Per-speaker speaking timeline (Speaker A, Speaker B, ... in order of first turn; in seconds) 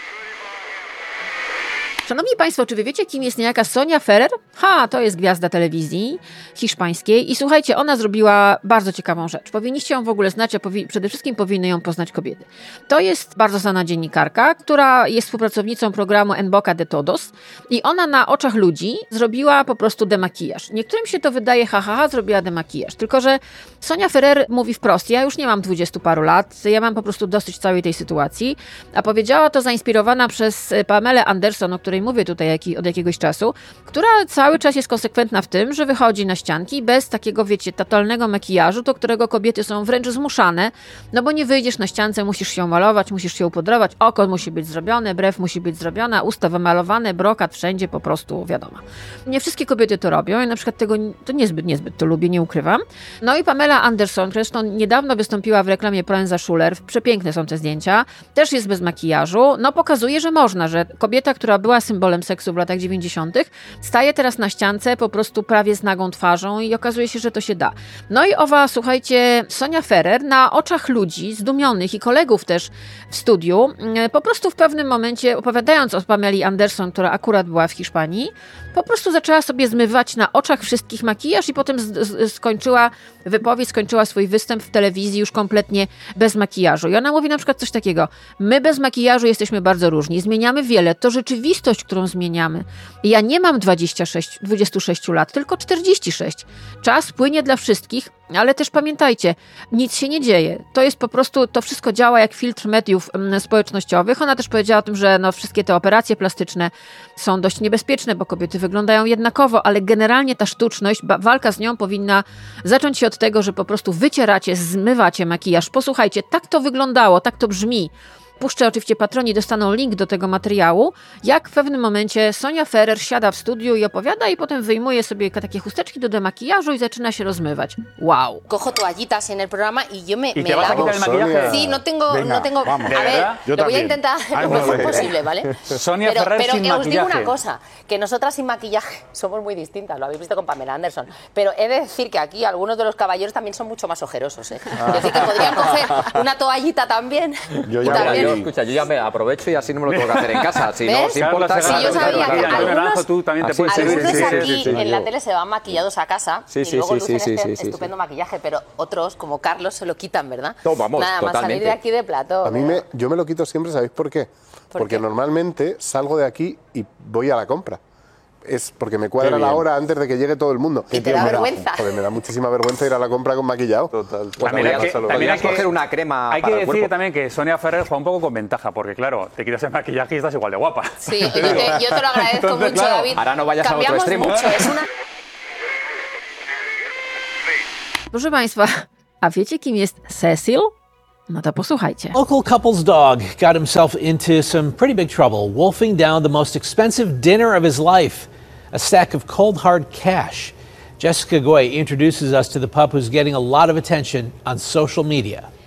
Speaker A: 2.1-128.4, 188.1-190.7, 191.3-192.2
Speaker B: 128.5-148.4, 150.8-153.1, 153.7-162.8, 164.7-165.0, 170.9-171.9, 181.1-184.8
Speaker C: 130.3-137.3, 149.9-154.7, 174.4-175.6, 176.3-184.7
Speaker D: 130.6-131.7, 162.4-167.8, 168.4-175.6
Speaker E: 147.9-152.8, 153.4-155.0, 156.5-157.7, 160.7-161.7, 174.5-176.9, 183.2-184.6
Speaker F: 192.1-205.5